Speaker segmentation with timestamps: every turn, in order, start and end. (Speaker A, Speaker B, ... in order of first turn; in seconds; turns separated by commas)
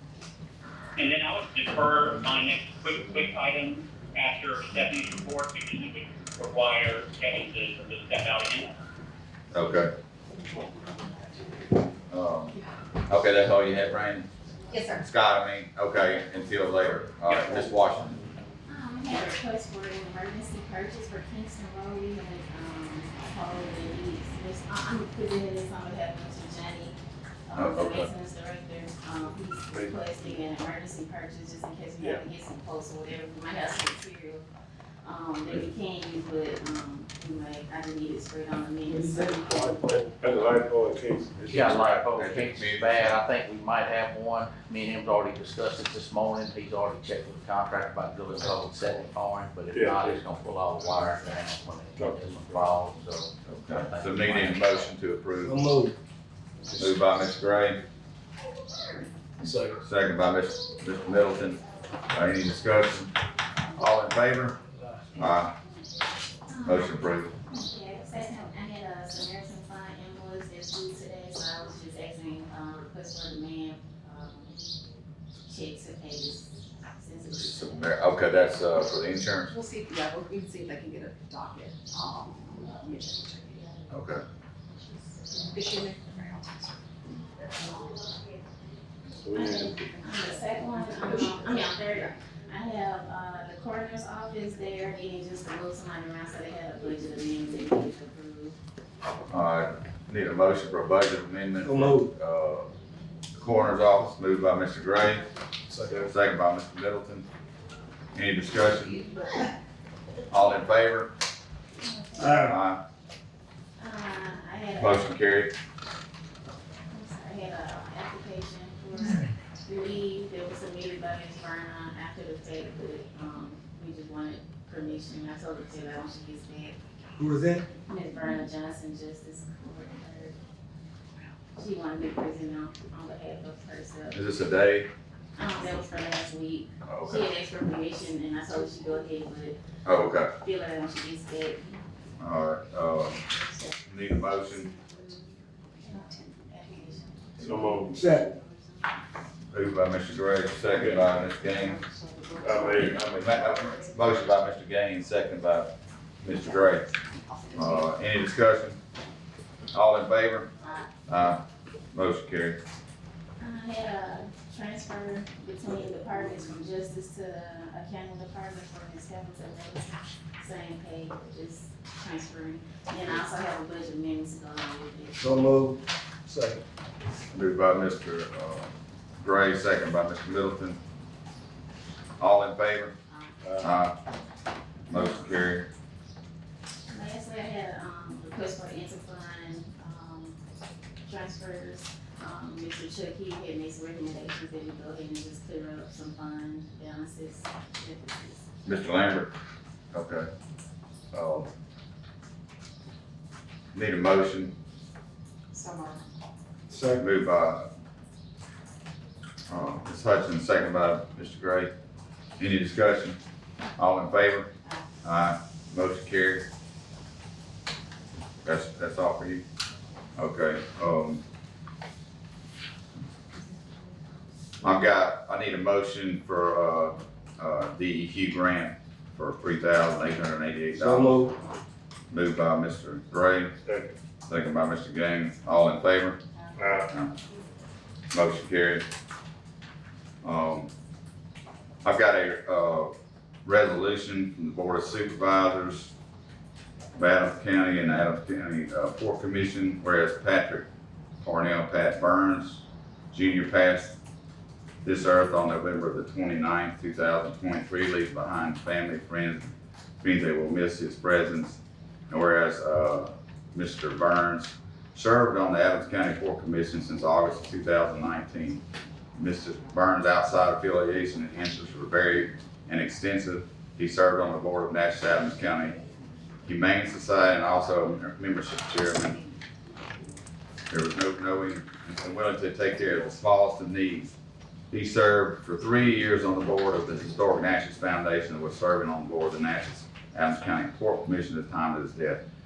Speaker A: 1.0-8.7, Speaker B: 9.5-9.9, Speaker B: 12.1-14.3, Speaker C: 14.7-15.1, Speaker B: 14.9-18.2, Speaker A: 17.3-17.7, Speaker D: 18.7-27.0, Speaker D: 27.5-34.5, Speaker B: 27.6-28.1, Speaker D: 35.0-40.0, Speaker E: 38.9-40.1, Speaker F: 39.8-41.5, Speaker B: 41.5-43.2, Speaker G: 41.5-54.9, Speaker F: 49.7-50.2, Speaker F: 52.0-52.6, Speaker B: 53.5-55.7, Speaker E: 55.4-56.0, Speaker B: 56.8-57.8, Speaker E: 59.4-59.8, Speaker B: 59.8-61.6, Speaker B: 62.1-63.1, Speaker B: 63.8-64.6, Speaker B: 65.2-65.5, Speaker D: 66.5-74.6, Speaker B: 66.7-67.3, Speaker D: 75.5-78.3, Speaker B: 77.3-79.6, Speaker C: 79.5-83.8, Speaker B: 83.9-84.2, Speaker C: 85.3-86.8, Speaker F: 89.2-89.8, Speaker D: 89.3-98.6, Speaker C: 90.1-92.1, Speaker B: 99.3-102.7, Speaker E: 101.6-102.1, Speaker B: 103.4-105.3, Speaker E: 105.7-106.1, Speaker B: 106.0-107.3, Speaker B: 108.1-109.0, Speaker B: 110.3-111.1, Speaker D: 111.8-112.4, Speaker E: 112.2-112.6, Speaker B: 112.3-112.8, Speaker D: 113.8-115.2, Speaker B: 114.8-115.5, Speaker D: 116.9-126.8, Speaker E: 127.2-127.7, Speaker D: 127.9-130.4, Speaker D: 131.6-134.2, Speaker B: 134.1-134.9, Speaker D: 135.4-139.6, Speaker B: 136.8-137.3, Speaker B: 139.9-140.3, Speaker D: 140.2-141.9, Speaker B: 142.2-143.2, Speaker D: 143.3-143.8, Speaker B: 143.8-144.7, Speaker D: 144.3-145.1, Speaker D: 145.8-148.9, Speaker F: 147.4-148.1, Speaker E: 147.9-148.3, Speaker B: 149.5-151.8, Speaker F: 150.8-151.1, Speaker C: 152.0-152.9, Speaker F: 152.4-153.8, Speaker B: 152.8-156.9, Speaker C: 157.3-157.7, Speaker B: 157.5-158.8, Speaker B: 159.7-160.5, Speaker B: 161.1-162.6, Speaker D: 163.4-175.6, Speaker E: 175.2-176.6, Speaker B: 177.3-180.8, Speaker B: 182.2-182.9, Speaker D: 183.1-183.4, Speaker B: 183.6-183.9, Speaker B: 184.9-185.7, Speaker D: 186.9-190.4, Speaker D: 191.0-198.5, Speaker B: 198.7-199.3, Speaker B: 199.9-200.3, Speaker B: 201.1-201.5, Speaker B: 203.7-204.5, Speaker C: 205.5-206.0, Speaker E: 206.7-207.0, Speaker B: 207.0-207.7, Speaker B: 209.5-211.7, Speaker B: 212.4-213.2, Speaker B: 213.8-214.5, Speaker B: 215.0-216.5, Speaker B: 218.4-219.4, Speaker B: 220.2-221.2, Speaker B: 224.6-231.2, Speaker E: 230.8-231.4, Speaker B: 232.1-233.5, Speaker F: 233.7-233.9, Speaker B: 234.3-236.2, Speaker F: 236.6-236.9, Speaker B: 236.9-237.2, Speaker B: 238.1-238.8, Speaker B: 240.2-240.7, Speaker B: 241.8-242.9, Speaker B: 243.4-245.9, Speaker B: 247.0-250.7, Speaker B: 251.2-254.0, Speaker B: 254.8-268.6, Speaker B: 269.2-275.8, Speaker B: 276.4-279.2, Speaker B: 280.7-284.1, Speaker B: 284.7-292.2